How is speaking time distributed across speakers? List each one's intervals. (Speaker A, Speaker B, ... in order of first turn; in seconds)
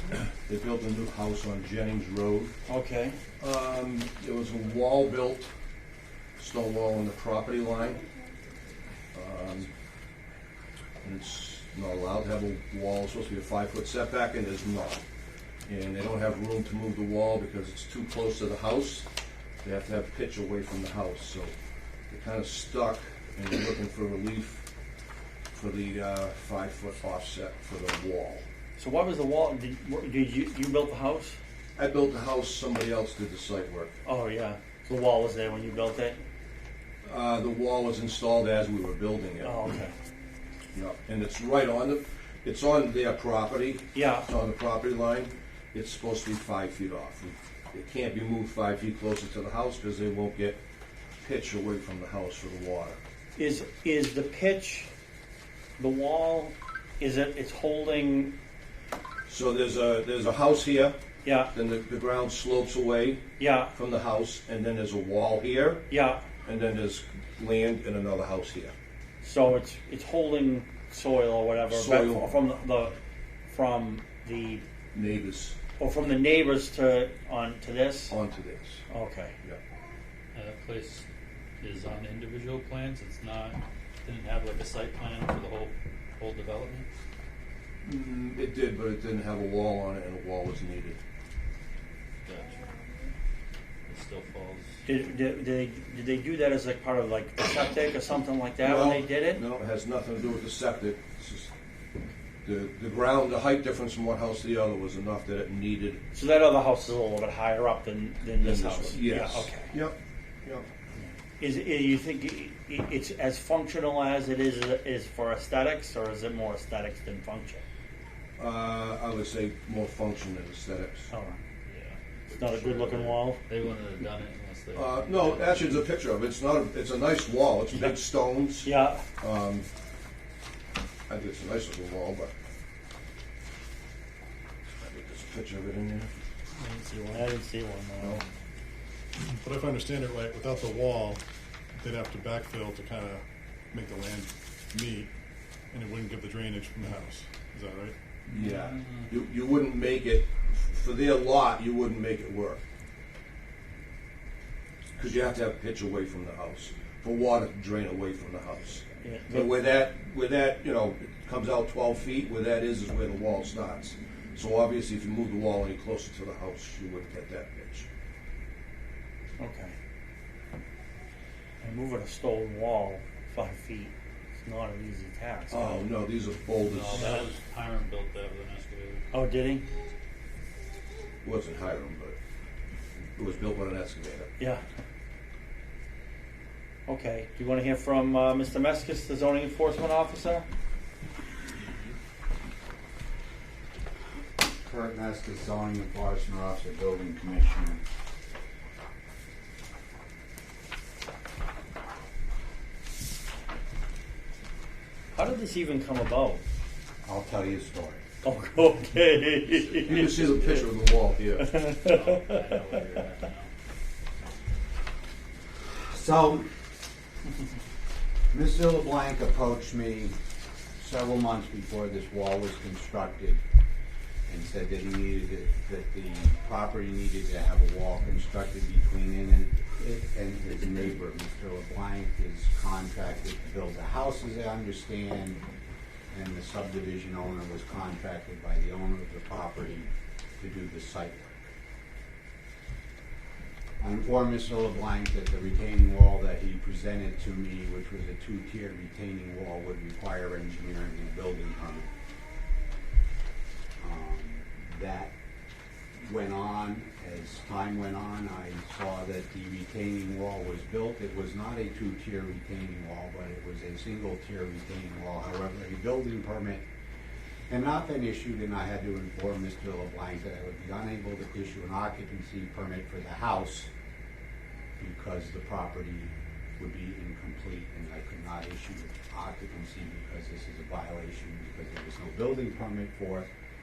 Speaker A: 0.5-2.5, 3.4-5.5, 6.4-8.0, 9.1-9.7, 11.0-15.0, 15.7-19.1, 19.6-21.5, 22.1-24.6, 25.5-28.4, 31.8-34.0, 37.0-39.5, 40.7-50.6, 51.2-53.0, 59.3-61.0, 61.5-65.8, 66.4-68.7, 71.7-72.3, 74.9-75.5, 78.1-78.8, 87.8-91.0, 98.6-101.5, 102.4-106.0, 108.4-110.7, 118.4-121.1, 122.4-123.2, 124.7-128.7, 129.2-129.7, 131.1-132.3, 134.7-136.2, 148.3-152.6, 155.0-167.8, 175.5-177.2, 181.2-182.2, 183.2-184.3, 209.8-211.6
Speaker B: 2.7-3.2, 28.8-31.4, 34.0-36.2, 39.4-39.9, 43.9-44.3, 53.4-54.9, 55.8-58.3, 61.2-61.5, 63.4-63.7, 65.9-66.2, 69.2-73.0, 73.5-74.6, 75.8-78.1, 78.9-79.3, 94.8-99.5, 106.1-109.7, 111.0-117.6, 121.1-121.4, 122.3-123.4, 128.6-129.0, 136.6-138.2, 159.0-159.5, 169.4-169.8, 171.6-175.9, 176.9-177.3, 179.1-179.7, 186.9-190.4, 205.1-206.4, 208.2-210.5, 211.4-212.4
Speaker C: 80.3-81.0, 81.6-86.8, 92.2-92.6, 93.9-94.8, 121.7-122.0, 123.4-125.8, 148.3-149.0, 176.6-179.0, 211.8-213.5
Speaker D: 139.3-141.2, 141.8-145.1, 145.7-147.9
Speaker E: 194.6-197.8, 207.0-208.0, 215.8-216.5, 218.3-220.2, 220.8-223.4, 224.3-235.4, 236.1-241.5, 243.8-251.9, 253.8-255.1, 256.0-266.6, 267.5-273.7, 274.8-283.3